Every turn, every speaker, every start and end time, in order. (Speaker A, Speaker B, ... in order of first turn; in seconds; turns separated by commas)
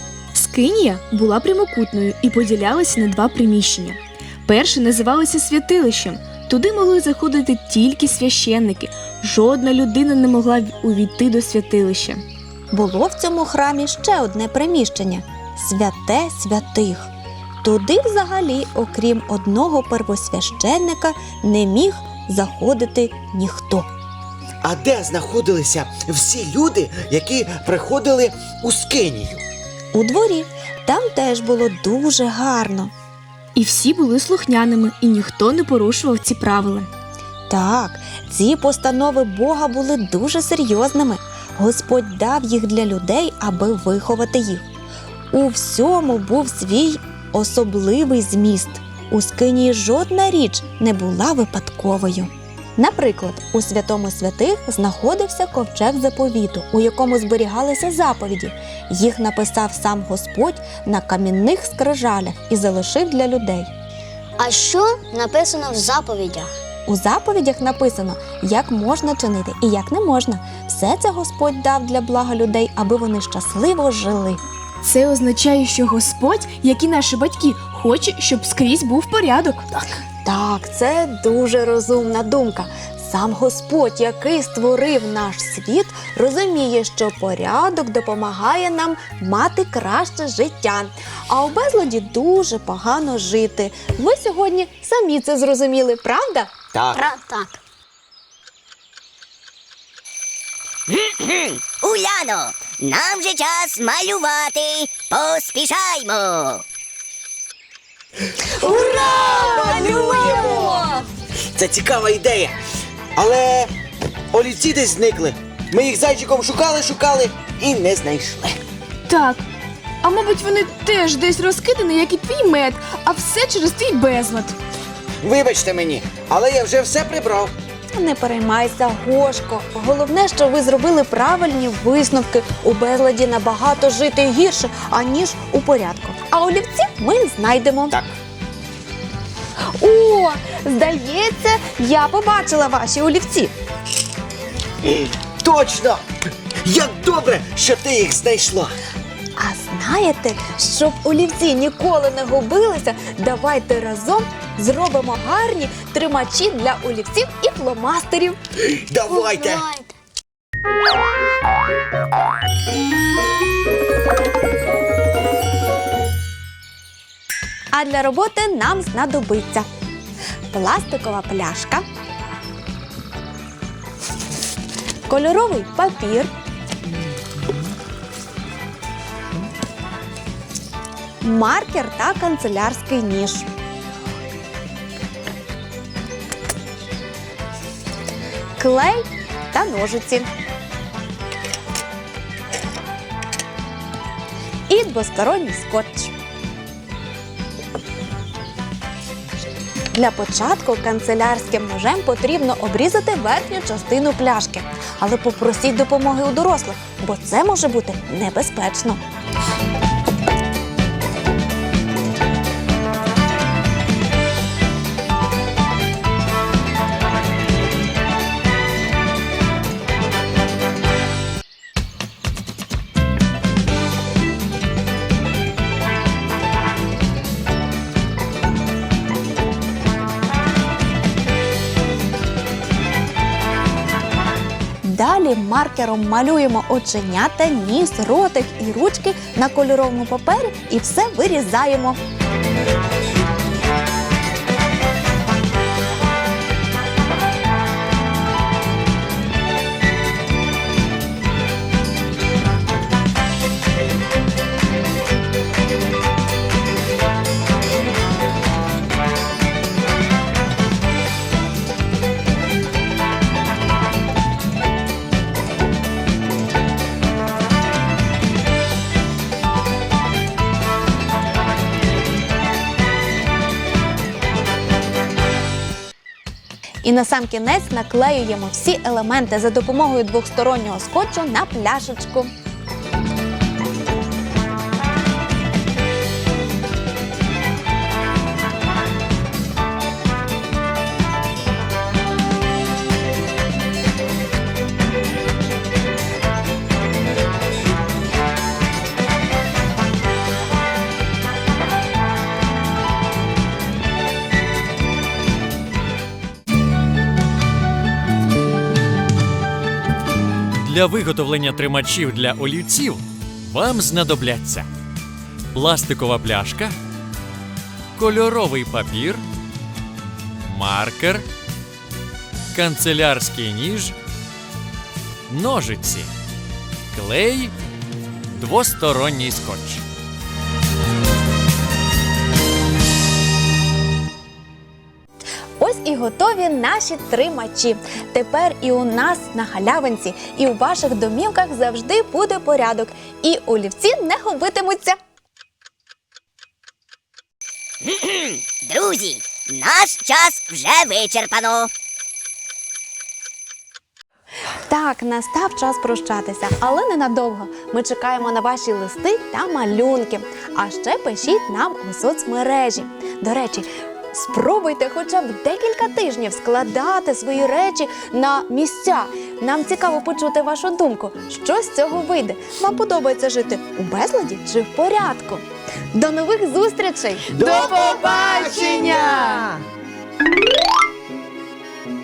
Speaker A: 0.3-12.2, Speaker B: 12.7-17.1, Speaker B: 17.6-23.9, Speaker C: 24.6-29.4, Speaker B: 29.9-32.9, Speaker A: 33.5-36.9, Speaker B: 37.5-44.7, Speaker B: 45.3-63.7, Speaker D: 64.4-66.5, Speaker B: 66.9-74.4, Speaker A: 74.8-79.7, Speaker B: 80.2-96.5, Speaker C: 96.7-97.0, Speaker D: 96.9-97.6, Speaker E: 100.9-106.6, Speaker C: 108.4-110.9, Speaker D: 108.7-110.9, Speaker C: 111.5-112.6, Speaker C: 113.2-113.7, Speaker C: 114.3-118.6, Speaker A: 119.1-119.5, Speaker A: 120.0-124.6, Speaker C: 125.2-127.5, Speaker B: 127.9-138.0, Speaker C: 137.9-138.2, Speaker B: 139.7-143.5, Speaker C: 144.8-148.8, Speaker B: 149.4-158.4, Speaker C: 158.6-159.7, Speaker D: 159.1-159.9, Speaker B: 167.7-169.7, Speaker B: 170.5-171.8, Speaker B: 175.1-176.3, Speaker B: 181.2-183.5, Speaker B: 188.6-190.3, Speaker B: 194.7-196.1, Speaker B: 199.9-209.0, Speaker B: 234.8-242.0, Speaker B: 276.8-282.3, Speaker F: 310.6-314.7, Speaker F: 315.5-316.7, Speaker F: 318.0-319.2, Speaker F: 320.4-321.2, Speaker F: 322.5-324.0, Speaker F: 325.3-326.1, Speaker F: 326.9-327.5, Speaker F: 328.3-329.8, Speaker B: 335.6-345.0, Speaker E: 347.8-351.7, Speaker B: 354.7-377.5, Speaker C: 377.3-379.6